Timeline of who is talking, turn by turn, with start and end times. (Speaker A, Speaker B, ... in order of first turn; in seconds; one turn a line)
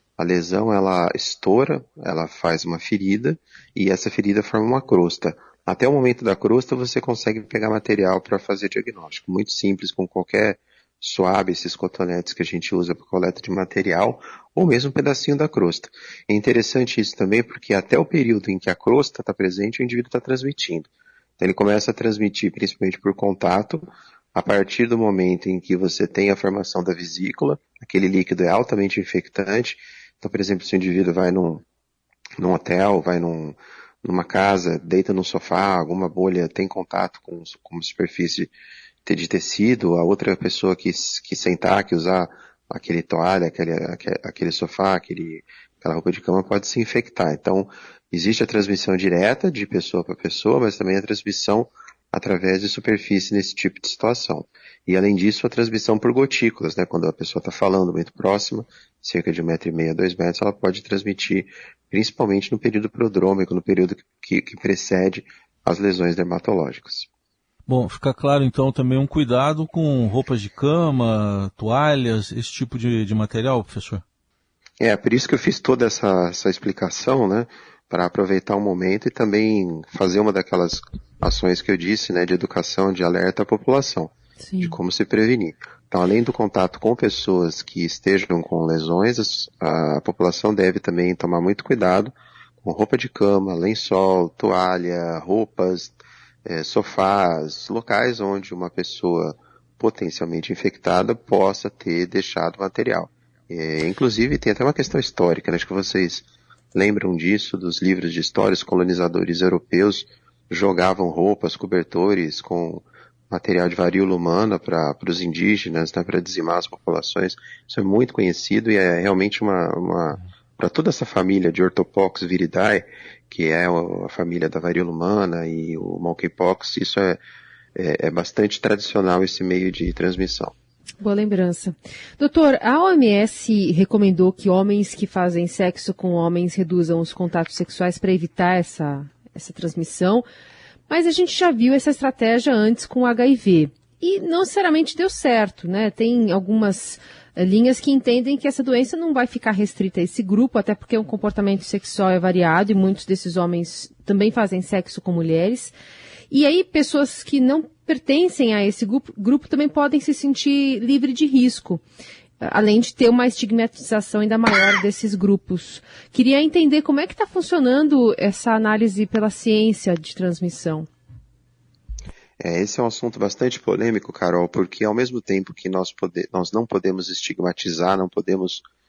Speaker A: 0.2-31.6
Speaker A: 32.4-38.5
Speaker A: 39.0-67.1
Speaker B: 67.7-74.0
Speaker A: 74.8-127.2
Speaker C: 84.4-84.8
Speaker A: 127.8-130.5
Speaker C: 131.0-140.2
Speaker C: 140.9-155.7
Speaker C: 156.3-161.8
Speaker C: 162.4-170.9
Speaker A: 172.4-178.6